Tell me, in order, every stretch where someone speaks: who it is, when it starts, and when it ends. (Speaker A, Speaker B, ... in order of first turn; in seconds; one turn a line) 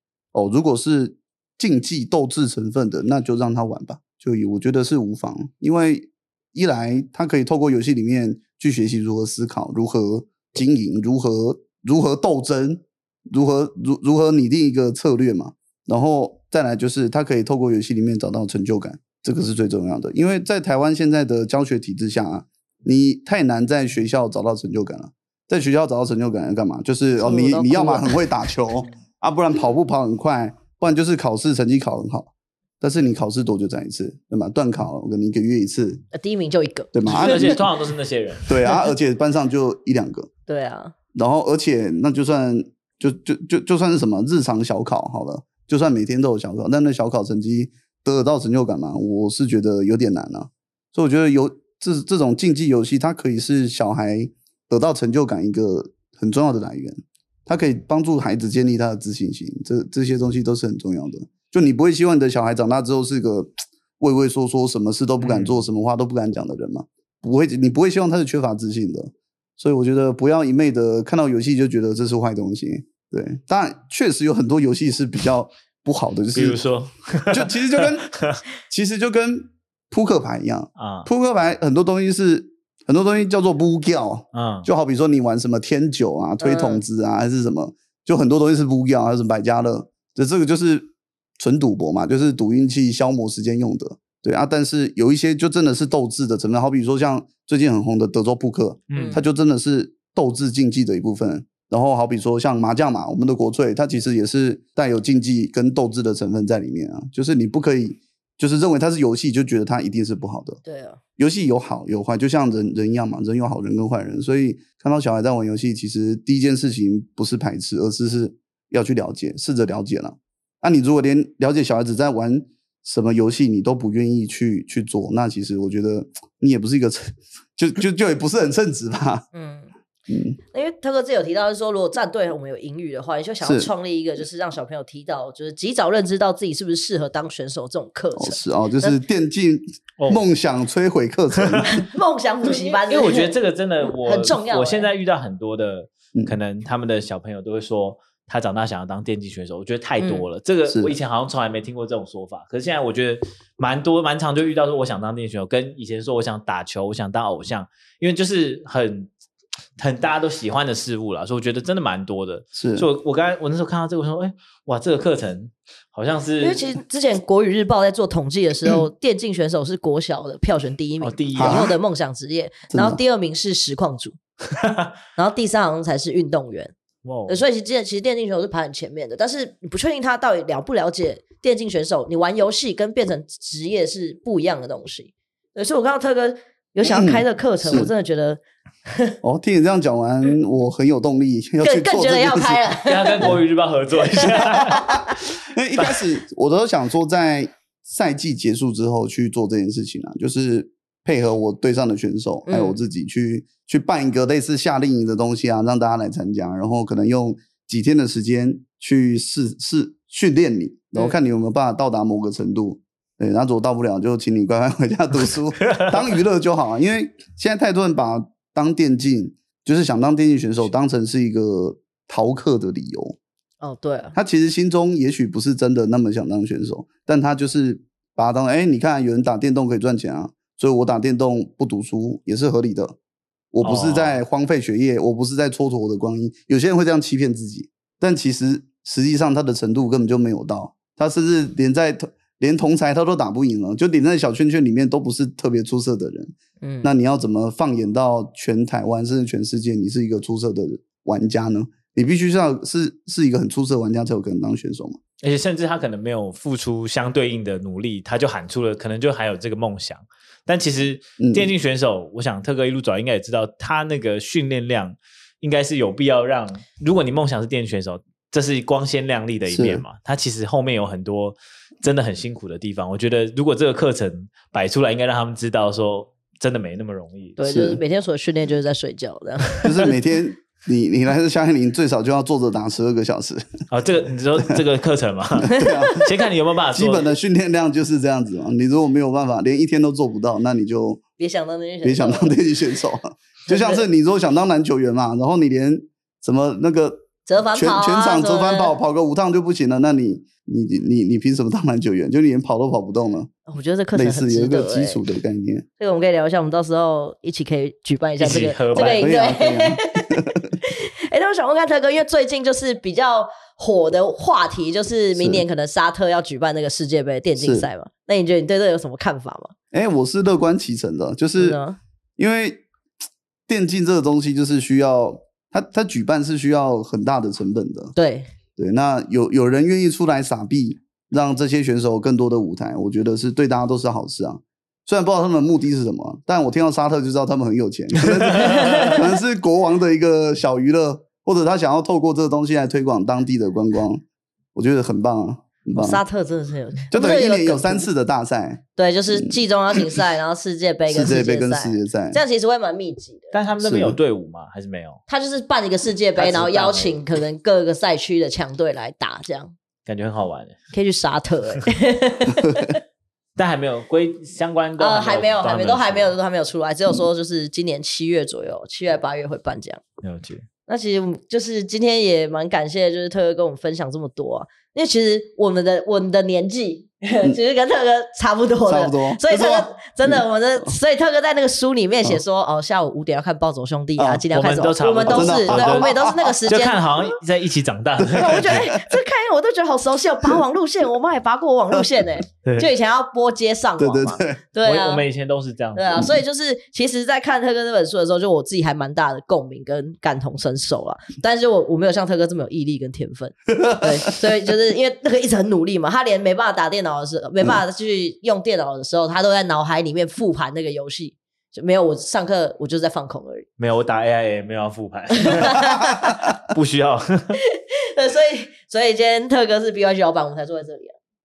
Speaker A: 0.3-36.0
Speaker B: 27.2-28.2
Speaker B: 36.1-37.6
Speaker A: 36.9-37.6
Speaker C: 37.1-38.5
Speaker A: 38.5-40.3
Speaker B: 40.5-40.9
Speaker A: 41.1-76.6
Speaker C: 65.2-65.6
Speaker C: 76.3-78.4
Speaker A: 77.3-78.1
Speaker A: 78.7-110.6
Speaker C: 80.8-81.1
Speaker C: 84.3-84.7
Speaker B: 86.4-86.8
Speaker C: 98.9-99.2
Speaker B: 98.9-99.2
Speaker B: 110.6-111.0
Speaker A: 111.2-129.2
Speaker B: 129.3-129.7
Speaker A: 130.1-130.4
Speaker B: 130.5-139.0
Speaker A: 133.4-133.7
Speaker A: 138.2-141.7
Speaker C: 141.4-141.7
Speaker B: 141.7-143.3
Speaker C: 142.4-159.1
Speaker B: 144.0-144.9
Speaker B: 150.0-150.2
Speaker A: 150.7-150.9
Speaker C: 159.8-166.7
Speaker A: 162.6-162.9
Speaker B: 166.4-174.2
Speaker C: 171.0-171.7
Speaker A: 171.3-171.8
Speaker A: 172.7-173.0
Speaker C: 174.6-174.9
Speaker B: 175.2-176.7
Speaker C: 177.1-177.4
Speaker B: 177.3-189.1
Speaker A: 186.8-187.9
Speaker A: 189.2-192.7
Speaker B: 191.6-193.3
Speaker C: 192.8-195.0
Speaker B: 194.2-194.4
Speaker A: 194.2-223.2
Speaker B: 202.5-202.8
Speaker C: 215.7-215.9
Speaker B: 223.6-224.1
Speaker A: 224.1-233.0
Speaker A: 233.5-255.0
Speaker C: 233.6-234.2
Speaker B: 246.6-246.9
Speaker C: 255.2-277.4
Speaker A: 261.2-261.5
Speaker A: 269.5-269.8
Speaker B: 277.4-279.9
Speaker A: 277.4-277.8
Speaker A: 279.6-283.5
Speaker C: 283.7-287.1
Speaker A: 285.4-286.1
Speaker B: 285.6-286.0
Speaker A: 286.7-291.0
Speaker B: 291.2-292.4
Speaker A: 291.8-303.3
Speaker B: 293.5-293.8
Speaker B: 297.2-298.7
Speaker B: 303.5-305.0
Speaker A: 303.9-305.6
Speaker B: 305.8-319.5
Speaker C: 308.2-309.1
Speaker A: 308.7-310.5
Speaker A: 315.1-315.4
Speaker A: 317.4-317.7
Speaker A: 319.7-321.6
Speaker B: 321.4-321.8
Speaker A: 322.2-322.6
Speaker A: 323.5-327.9
Speaker B: 327.9-328.3
Speaker A: 328.6-344.0
Speaker B: 338.4-339.0
Speaker C: 338.4-338.9
Speaker A: 344.6-346.0
Speaker B: 345.8-347.9
Speaker A: 346.9-350.0
Speaker B: 348.8-353.4
Speaker A: 350.9-352.2
Speaker C: 353.3-355.0
Speaker A: 353.6-354.0
Speaker B: 355.1-359.5
Speaker C: 356.2-357.0
Speaker C: 359.9-360.6
Speaker B: 360.7-362.8
Speaker C: 363.4-366.1
Speaker B: 364.8-369.8
Speaker C: 370.0-370.4
Speaker B: 370.7-387.0
Speaker A: 378.7-380.2
Speaker A: 384.0-384.2
Speaker C: 384.3-388.6
Speaker A: 385.1-386.4
Speaker A: 388.0-388.8
Speaker B: 388.1-395.1
Speaker C: 392.4-392.7
Speaker A: 393.8-394.4
Speaker C: 394.6-396.1
Speaker B: 395.7-413.4
Speaker A: 403.5-403.9
Speaker C: 413.6-417.4
Speaker B: 415.2-415.9
Speaker A: 415.6-416.3
Speaker B: 417.5-420.9